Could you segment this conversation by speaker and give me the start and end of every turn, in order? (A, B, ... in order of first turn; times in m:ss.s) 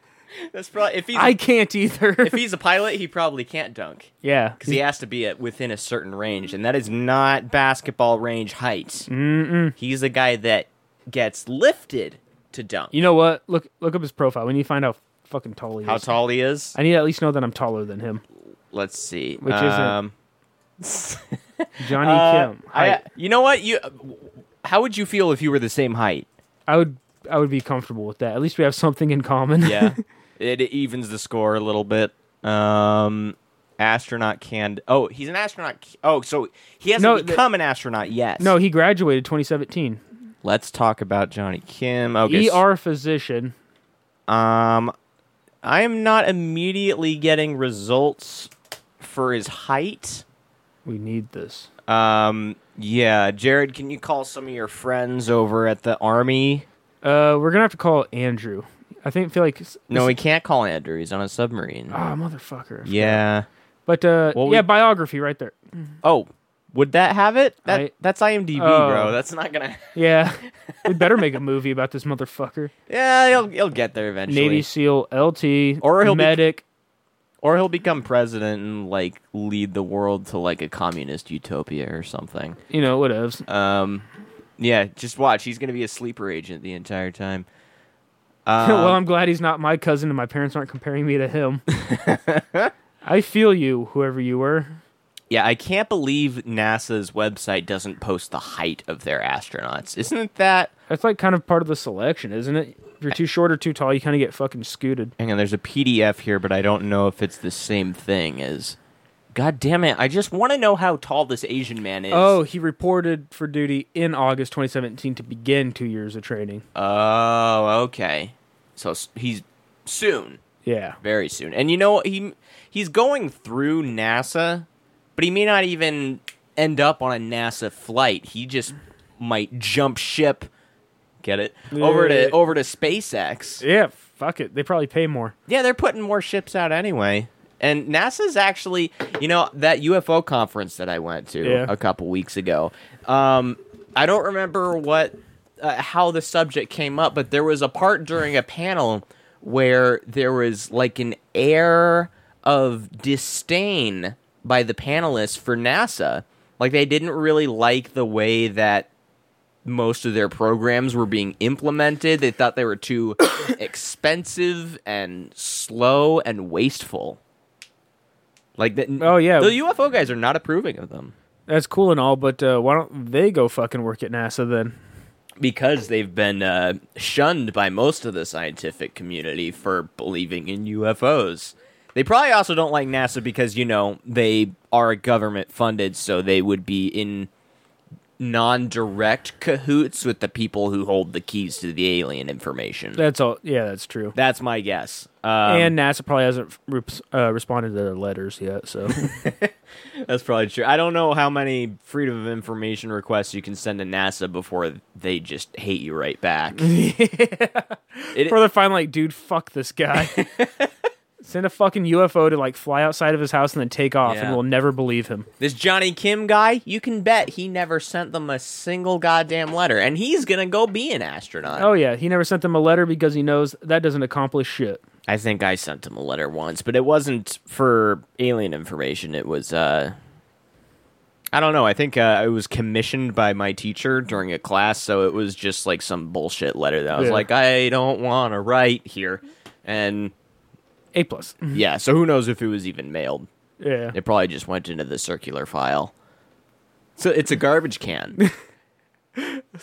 0:00.4-0:01.4 A
0:01.1-0:02.4 B
0:02.2-0:09.1 A
0:04.2-0:04.8 B
0:09.1-0:09.8 B
0:09.8-0:13.0 A
0:12.9-0:16.1 B
0:15.8-0:16.7 A
0:16.7-0:18.2 B
0:18.7-0:20.1 A
0:19.4-0:20.0 B
0:20.8-0:26.2 A
0:21.8-0:23.0 B
0:26.7-0:30.0 B
0:29.6-0:38.5 A
0:37.0-0:37.4 B
0:38.4-0:40.0 B
0:40.4-0:42.6 A
0:42.3-0:43.5 B
0:44.3-0:44.9 A
0:45.6-0:50.2 A
0:50.8-0:51.7 B
0:51.9-0:56.6 A
0:57.0-1:00.1 B
0:59.9-1:02.0 A
1:01.9-1:03.2 B
1:02.8-1:03.5 A
1:03.9-1:05.5 B
1:04.3-1:04.6 A
1:06.0-1:11.1 A
1:07.6-1:07.9 B
1:08.6-1:09.2 B
1:09.9-1:12.7 B
1:12.9-1:14.7 A
1:14.3-1:16.6 B
1:15.8-1:16.4 A
1:17.4-1:22.6 A
1:22.7-1:23.4 B
1:23.5-1:24.0 A
1:24.6-1:27.4 A
1:28.4-1:29.0 A
1:28.6-1:31.6 B
1:31.8-1:32.7 A
1:33.0-1:34.8 B
1:35.3-1:40.7 A
1:40.9-1:45.1 B
1:45.2-1:48.8 A
1:49.3-1:52.4 A
1:52.1-1:56.6 B
1:56.7-2:00.4 A
2:00.6-2:01.0 B
2:01.0-2:04.6 A
2:05.2-2:10.5 A
2:11.2-2:13.6 A
2:11.7-2:12.4 B
2:13.6-2:15.3 B
2:15.5-2:38.9 A
2:21.4-2:21.7 B
2:39.6-2:47.2 A
2:48.6-2:51.1 A
2:49.0-2:49.5 B
2:51.5-2:54.8 B
2:55.4-3:07.3 A
3:08.2-3:13.0 A
3:13.0-3:14.1 B
3:14.1-3:15.7 A
3:15.4-3:19.1 B
3:19.0-3:26.7 A
3:26.6-3:30.2 B
3:30.0-3:30.7 A
3:31.2-3:35.3 B
3:34.0-3:34.4 A
3:35.4-3:41.7 A
3:41.6-3:44.8 B
3:45.1-3:49.9 A
3:51.3-4:00.1 A
3:56.9-3:57.2 B
4:00.9-4:01.6 B
4:01.5-4:03.3 A
4:03.6-4:03.9 B
4:03.9-4:05.9 A
4:07.0-4:08.2 A
4:09.2-4:09.4 B